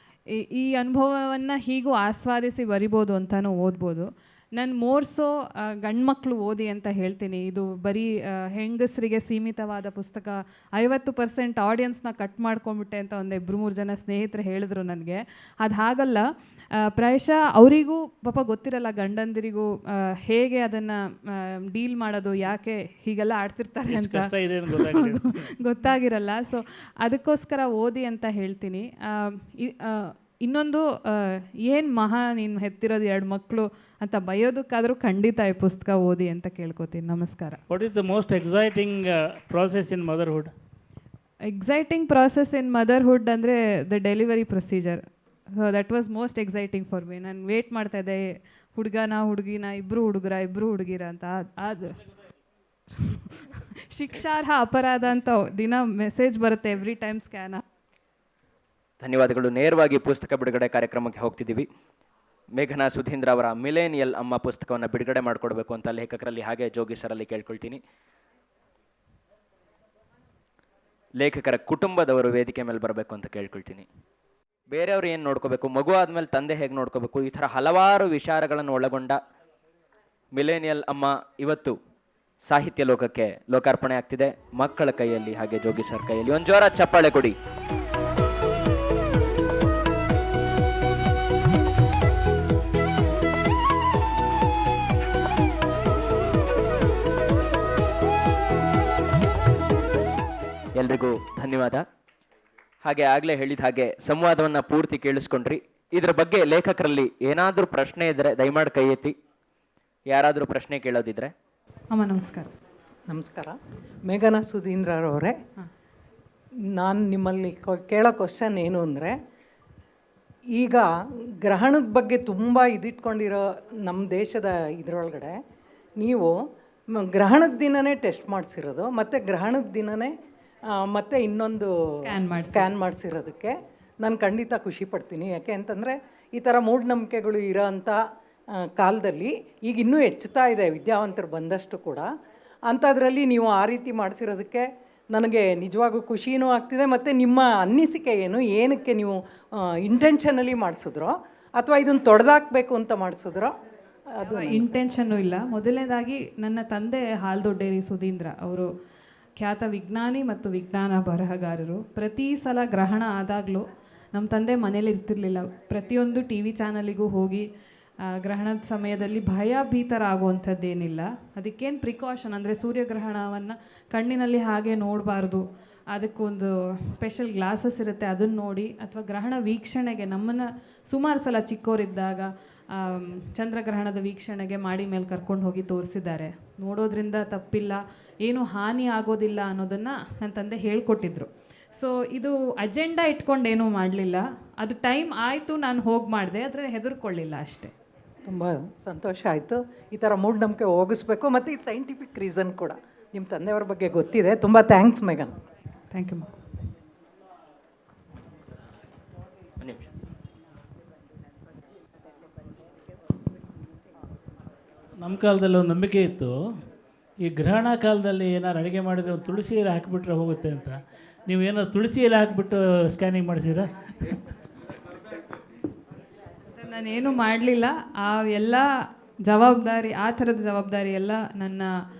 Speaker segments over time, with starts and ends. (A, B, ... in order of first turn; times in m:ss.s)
0:00.3-0:37.6 A
0:23.9-0:25.5 B
0:37.7-0:40.5 B
0:41.5-0:52.0 A
0:52.9-0:57.6 A
0:59.0-1:01.7 C
1:02.6-1:07.8 C
1:11.2-1:13.8 C
1:14.7-1:19.2 C
1:20.3-1:21.8 C
1:22.4-1:27.4 C
1:40.8-1:41.8 C
1:42.8-1:49.1 C
1:50.1-1:51.3 C
1:51.9-1:52.5 A
1:53.1-1:55.4 D
1:56.7-1:59.2 D
2:00.5-2:00.9 D
2:01.4-2:05.4 D
2:06.0-2:06.4 D
2:06.9-2:10.1 D
2:10.7-2:11.7 D
2:12.0-2:12.7 A
2:12.3-2:18.0 D
2:18.5-2:22.1 D
2:22.7-2:33.5 D
2:34.2-2:34.7 D
2:34.2-2:38.7 A
2:39.4-2:47.5 A
2:48.0-3:17.7 A
3:18.3-3:25.3 D
3:25.9-3:26.3 A
3:29.6-3:29.9 C
3:35.0-3:36.4 B
3:37.2-3:44.2 B
3:46.5-3:48.7 A
3:49.2-3:51.7 A